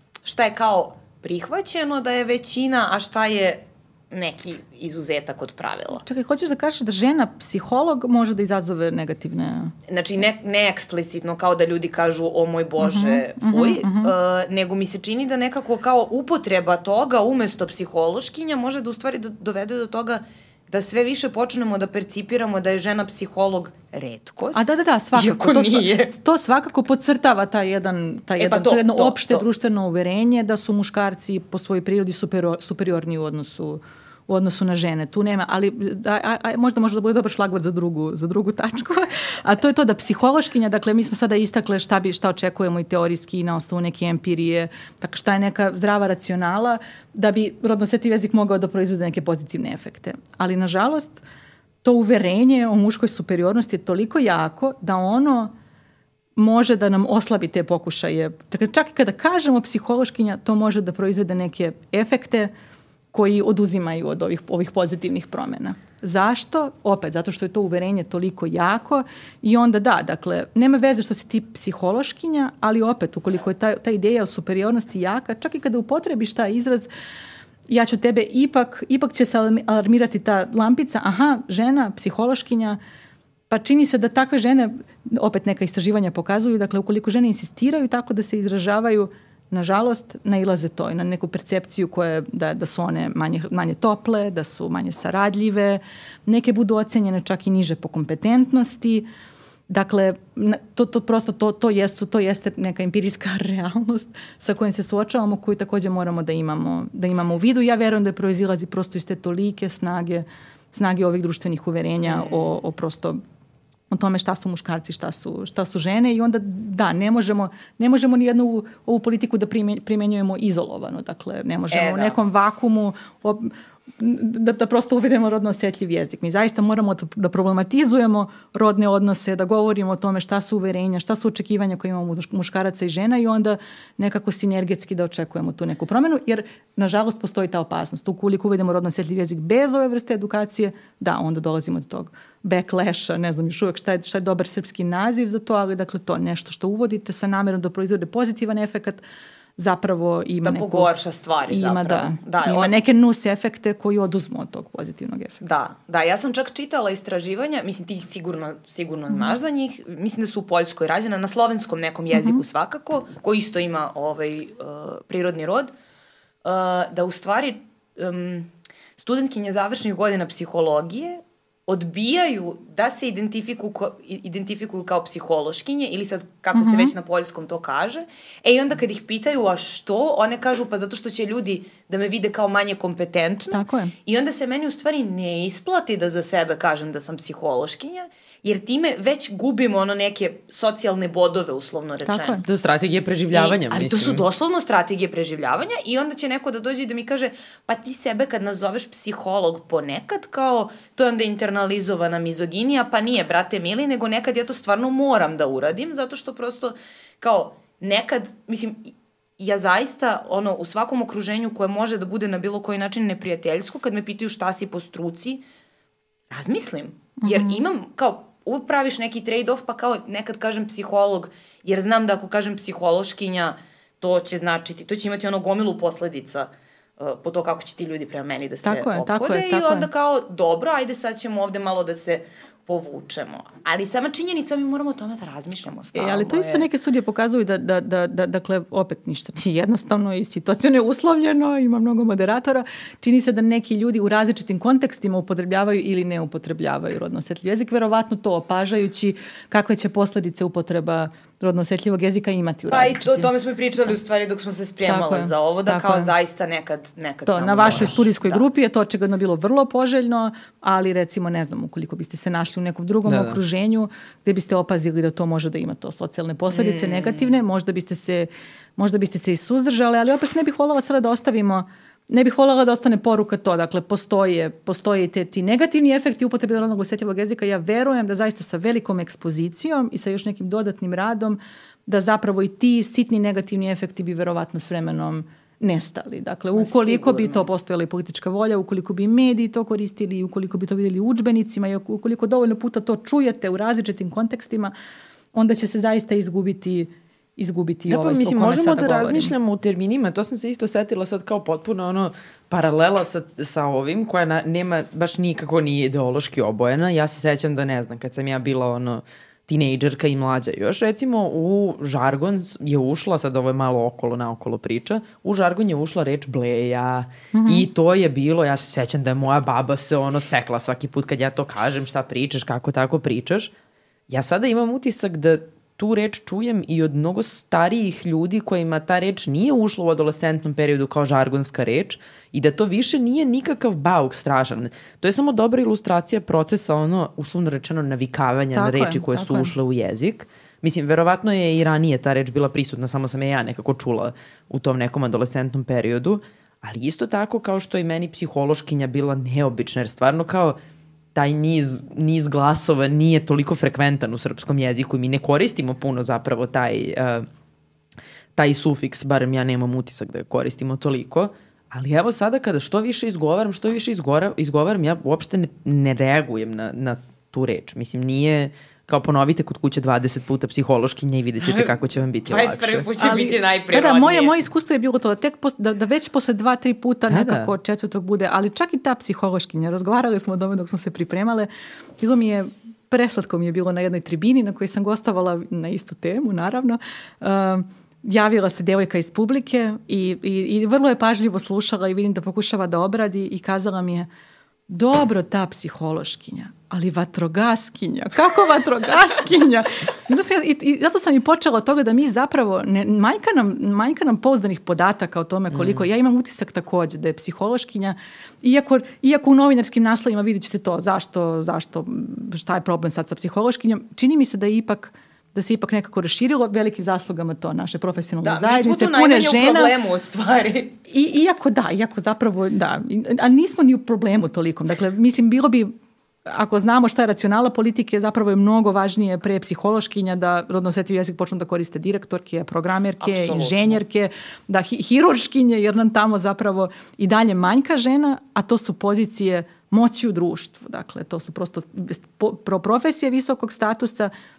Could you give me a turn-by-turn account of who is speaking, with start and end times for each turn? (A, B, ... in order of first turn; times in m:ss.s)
0:00.2-0:06.0 A
0:06.0-0:09.7 B
0:09.9-0:26.1 A
0:12.8-0:14.1 B
0:24.5-0:51.2 B
0:28.4-0:29.4 A
0:51.8-0:55.5 B
0:56.4-1:02.5 B
1:03.1-1:16.9 B
1:17.7-1:22.8 B
1:23.5-1:39.1 B
1:39.7-1:53.2 B
1:52.0-1:52.5 A
1:53.9-2:29.0 B
2:01.7-2:02.2 A
2:29.6-2:30.9 B
2:30.4-2:32.7 A
2:31.5-2:35.4 B
2:35.4-2:45.7 A
2:42.1-2:42.4 B
2:46.4-3:12.4 A
2:56.5-2:56.9 B
3:03.5-3:03.9 B
3:12.0-3:12.4 B
3:12.4-3:14.2 C
3:13.3-3:35.4 A
3:36.3-3:56.7 A
3:37.2-3:37.6 B
3:48.6-3:49.9 B
3:55.9-4:13.3 B
4:12.7-4:18.4 A
4:14.8-4:16.1 B
4:17.2-4:54.7 B
4:23.0-4:23.4 C
4:26.5-4:27.4 A
4:46.6-4:47.5 A
4:55.3-4:59.3 B
4:57.9-5:23.5 C
5:17.3-5:17.7 B
5:24.1-5:50.6 C
5:38.5-5:39.5 B
5:51.1-5:57.3 C
5:58.4-6:12.9 C
6:11.4-6:11.8 A
6:12.3-6:14.3 A
6:13.0-6:34.1 B
6:17.1-6:17.5 C
6:34.7-6:59.8 B
6:58.2-7:00.8 A
7:00.9-7:05.7 B
7:06.3-7:24.1 B
7:13.0-7:13.8 A